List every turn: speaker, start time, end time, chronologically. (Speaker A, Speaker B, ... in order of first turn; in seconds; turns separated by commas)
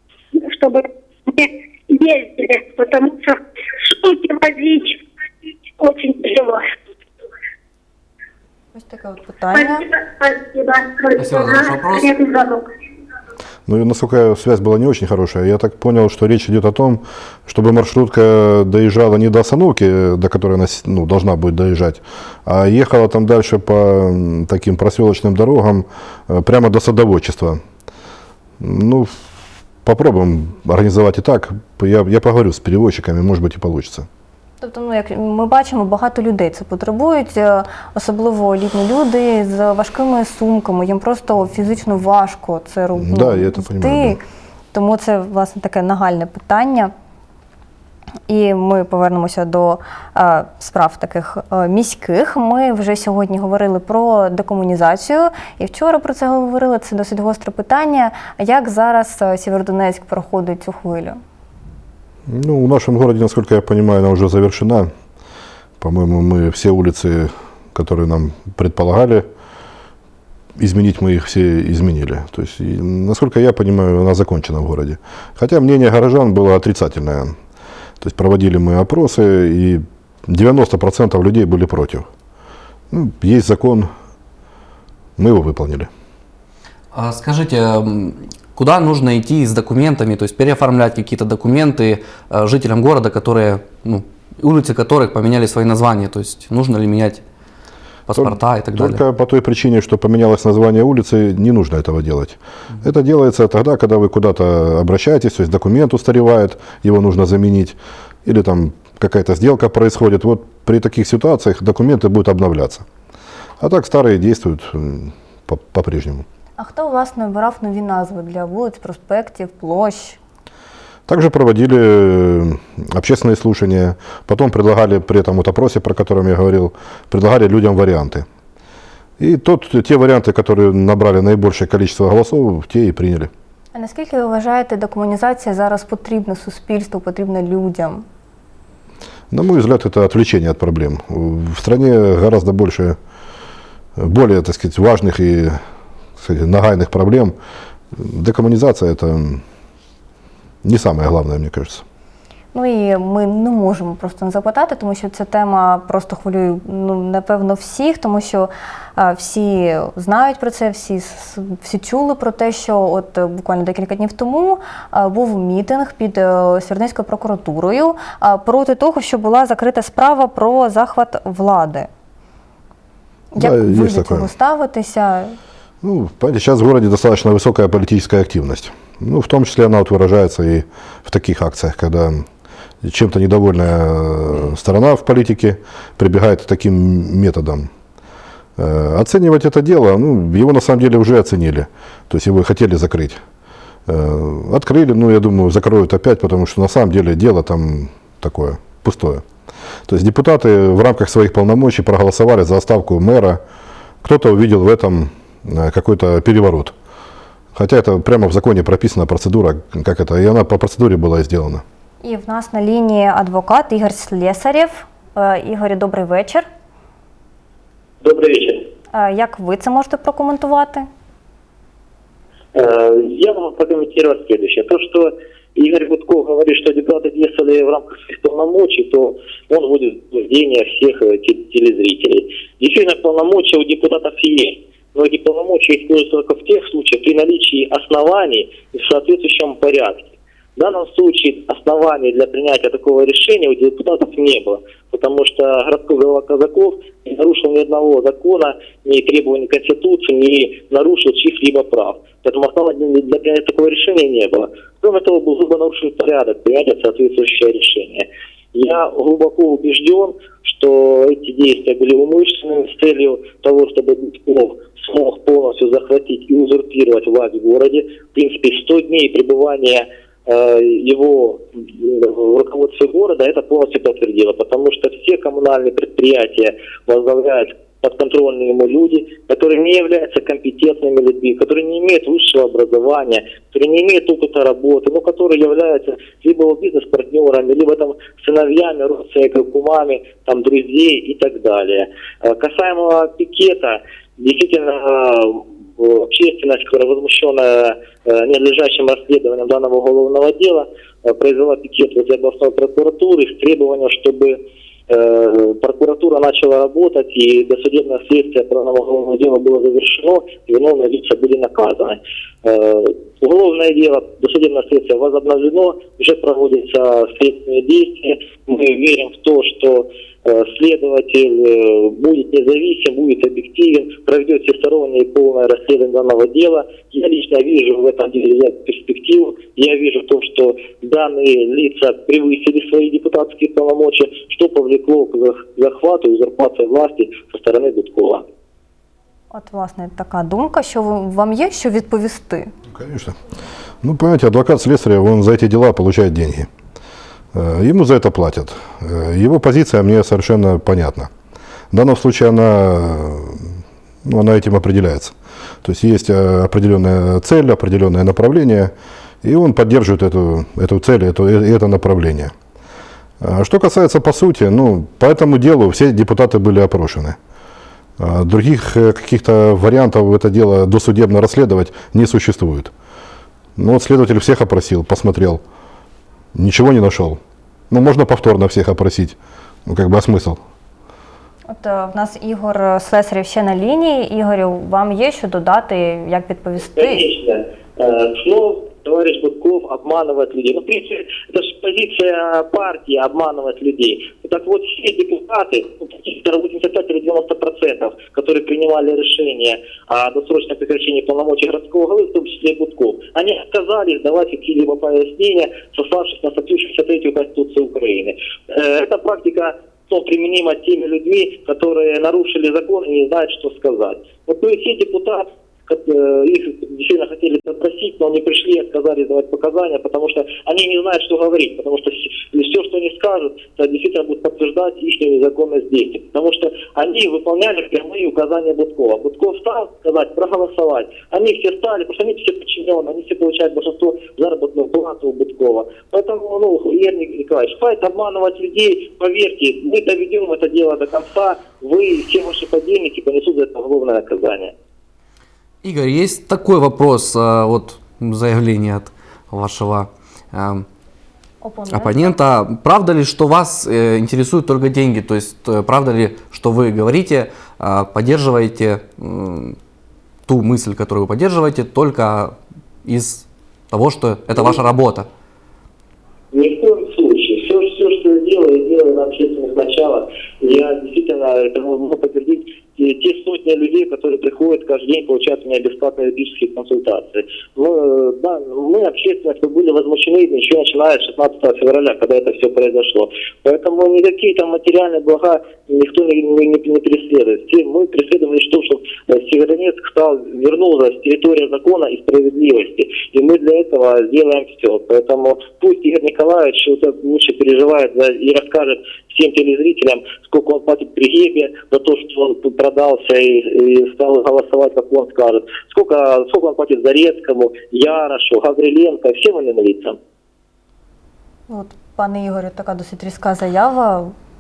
Speaker A: 0.3-5.0, Speaker A: 5.8-6.7, Speaker B: 8.7-9.8, Speaker A: 9.5-12.7, Speaker C: 11.2-12.1, Speaker D: 13.7-27.6, Speaker D: 28.6-29.1, Speaker D: 29.8-34.1, Speaker B: 34.6-46.9, Speaker D: 43.0-44.2, Speaker B: 48.3-61.2, Speaker D: 62.3-64.9, Speaker D: 65.8-69.3, Speaker D: 70.6-77.3, Speaker D: 78.0-82.1, Speaker D: 82.9-83.9, Speaker D: 85.2-85.9, Speaker C: 86.9-97.2, Speaker C: 98.1-99.0, Speaker D: 98.1-112.8, Speaker D: 113.6-116.2, Speaker B: 116.6-120.2, Speaker D: 121.1-128.2, Speaker D: 129.2-133.3, Speaker B: 133.7-138.0, Speaker D: 139.3-143.0, Speaker D: 144.0-145.6, Speaker D: 146.2-147.3, Speaker D: 147.9-149.4, Speaker D: 150.6-151.8, Speaker B: 152.5-171.9, Speaker B: 173.3-175.4, Speaker D: 173.4-174.3, Speaker D: 175.8-182.2, Speaker D: 182.8-187.7, Speaker D: 188.6-193.2, Speaker D: 193.9-199.2, Speaker D: 199.9-203.4, Speaker D: 204.0-206.7, Speaker D: 207.5-211.6, Speaker B: 212.0-216.4, Speaker E: 218.0-218.6, Speaker B: 218.9-220.8, Speaker E: 222.5-338.2, Speaker B: 339.3-342.5, Speaker D: 342.7-343.2, Speaker D: 343.8-346.5, Speaker D: 347.3-351.1, Speaker D: 351.7-362.3, Speaker D: 363.2-367.2, Speaker D: 368.0-372.7, Speaker D: 373.6-375.4, Speaker D: 376.3-377.2, Speaker D: 377.7-380.4, Speaker B: 381.5-387.1, Speaker E: 386.8-444.5, Speaker C: 445.6-450.6, Speaker B: 451.4-452.1, Speaker C: 451.7-459.6, Speaker C: 460.3-465.1, Speaker E: 466.3-510.0, Speaker B: 511.5-514.1